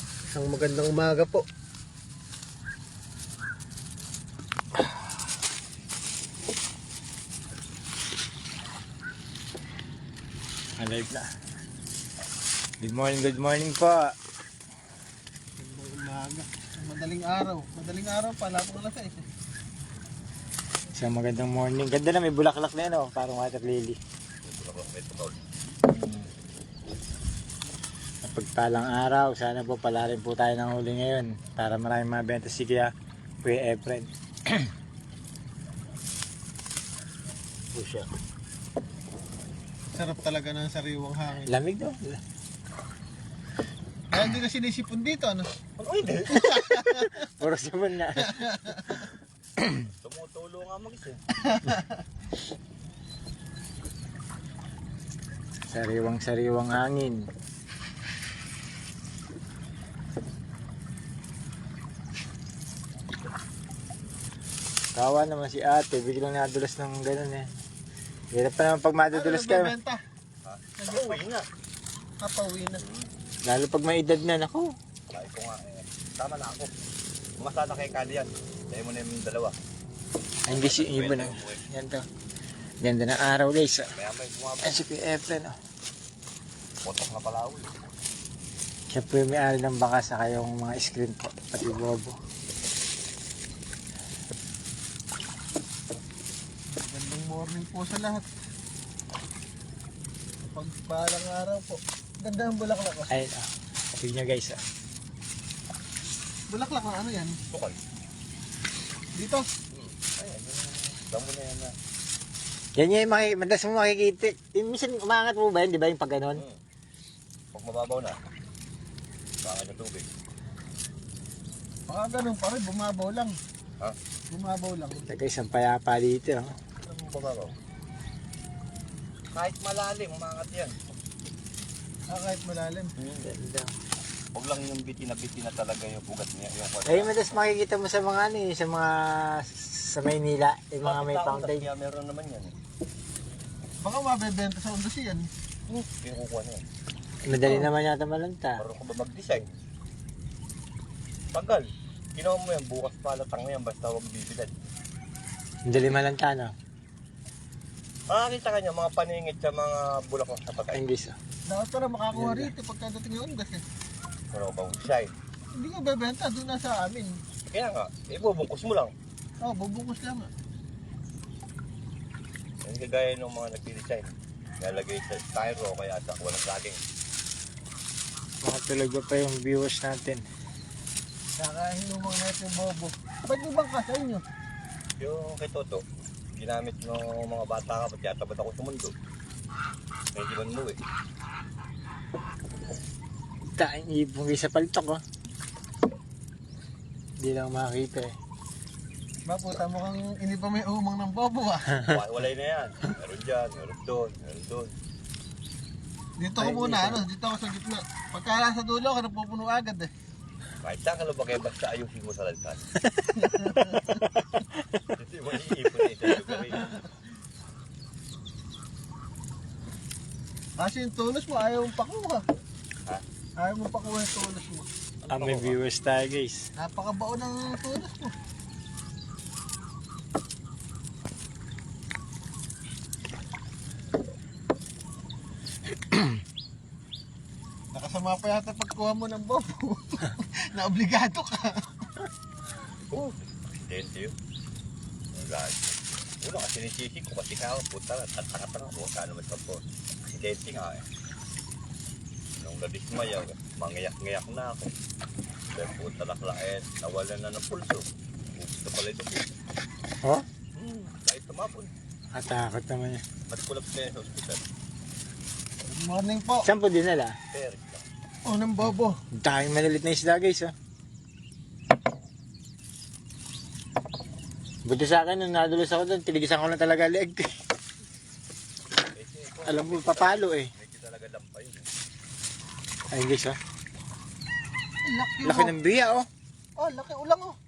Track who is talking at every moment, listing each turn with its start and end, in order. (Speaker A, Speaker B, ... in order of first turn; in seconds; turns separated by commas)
Speaker A: 0.3-1.5, Speaker B: 10.8-11.3, Speaker B: 12.8-14.2, Speaker A: 15.6-19.3, Speaker B: 20.9-24.0, Speaker C: 24.4-25.4, Speaker B: 28.3-34.6, Speaker B: 37.7-38.1, Speaker A: 39.9-41.5, Speaker B: 41.5-42.2, Speaker A: 44.1-45.5, Speaker C: 45.8-46.6, Speaker A: 46.5-47.1, Speaker B: 46.7-48.5, Speaker A: 48.3-49.0, Speaker C: 50.0-51.2, Speaker A: 51.4-51.8, Speaker B: 55.7-57.3, Speaker B: 65.0-67.5, Speaker B: 68.3-69.7, Speaker A: 69.1-70.0, Speaker C: 70.4-71.5, Speaker A: 70.8-71.2, Speaker A: 72.2-72.8, Speaker C: 72.8-73.1, Speaker B: 73.4-74.7, Speaker C: 75.1-76.7, Speaker C: 77.4-79.6, Speaker B: 80.5-82.0, Speaker C: 80.5-81.7, Speaker B: 82.8-83.9, Speaker C: 83.9-84.8, Speaker B: 84.6-85.5, Speaker C: 86.8-87.8, Speaker B: 88.9-92.2, Speaker A: 96.7-98.3, Speaker A: 100.5-103.1, Speaker B: 103.1-104.6, Speaker A: 106.5-107.4, Speaker C: 107.5-107.8, Speaker A: 109.2-109.5, Speaker C: 109.7-111.7, Speaker B: 112.8-116.4, Speaker C: 116.3-116.6, Speaker C: 117.5-118.2, Speaker C: 119.4-120.1, Speaker A: 121.9-123.4, Speaker A: 124.3-125.0, Speaker B: 125.1-126.5, Speaker C: 126.9-127.6, Speaker C: 129.3-130.8, Speaker A: 132.1-132.9, Speaker C: 133.0-133.3, Speaker B: 133.2-133.7, Speaker C: 134.3-137.4, Speaker B: 136.9-141.7, Speaker C: 140.8-142.6, Speaker A: 143.8-145.3, Speaker C: 145.7-146.7, Speaker B: 147.2-148.6, Speaker A: 147.4-147.7, Speaker C: 148.6-149.5, Speaker C: 151.3-154.7, Speaker B: 155.7-156.5, Speaker C: 158.1-160.8, Speaker B: 160.7-161.2, Speaker A: 161.5-163.6, Speaker B: 162.1-162.5, Speaker C: 164.3-165.1, Speaker A: 165.5-167.2, Speaker C: 167.5-168.9, Speaker A: 169.4-170.3, Speaker C: 172.6-176.8, Speaker B: 178.4-180.2, Speaker A: 181.4-184.2, Speaker C: 185.0-188.9, Speaker C: 190.2-190.8, Speaker B: 193.6-195.0, Speaker B: 197.2-198.2, Speaker A: 199.3-201.8, Speaker C: 201.8-204.7, Speaker A: 206.2-209.9, Speaker B: 206.4-207.0, Speaker C: 210.6-212.6, Speaker A: 213.2-213.9, Speaker C: 214.9-216.7, Speaker A: 220.6-222.2, Speaker A: 223.4-224.7, Speaker C: 225.1-225.6, Speaker B: 225.1-226.5, Speaker A: 226.6-228.1, Speaker A: 237.7-241.9, Speaker C: 242.9-244.1, Speaker C: 245.1-250.8, Speaker C: 252.4-254.7, Speaker C: 255.5-259.3, Speaker C: 260.5-261.7, Speaker B: 262.1-263.0, Speaker C: 263.3-264.4, Speaker A: 265.7-266.5, Speaker B: 266.4-267.2, Speaker C: 267.3-267.9, Speaker A: 268.3-269.0, Speaker B: 269.1-270.5, Speaker B: 274.7-277.3, Speaker C: 278.9-281.7, Speaker B: 279.5-280.5, Speaker B: 282.9-283.4, Speaker A: 284.9-285.5, Speaker B: 285.2-286.1, Speaker A: 286.6-287.4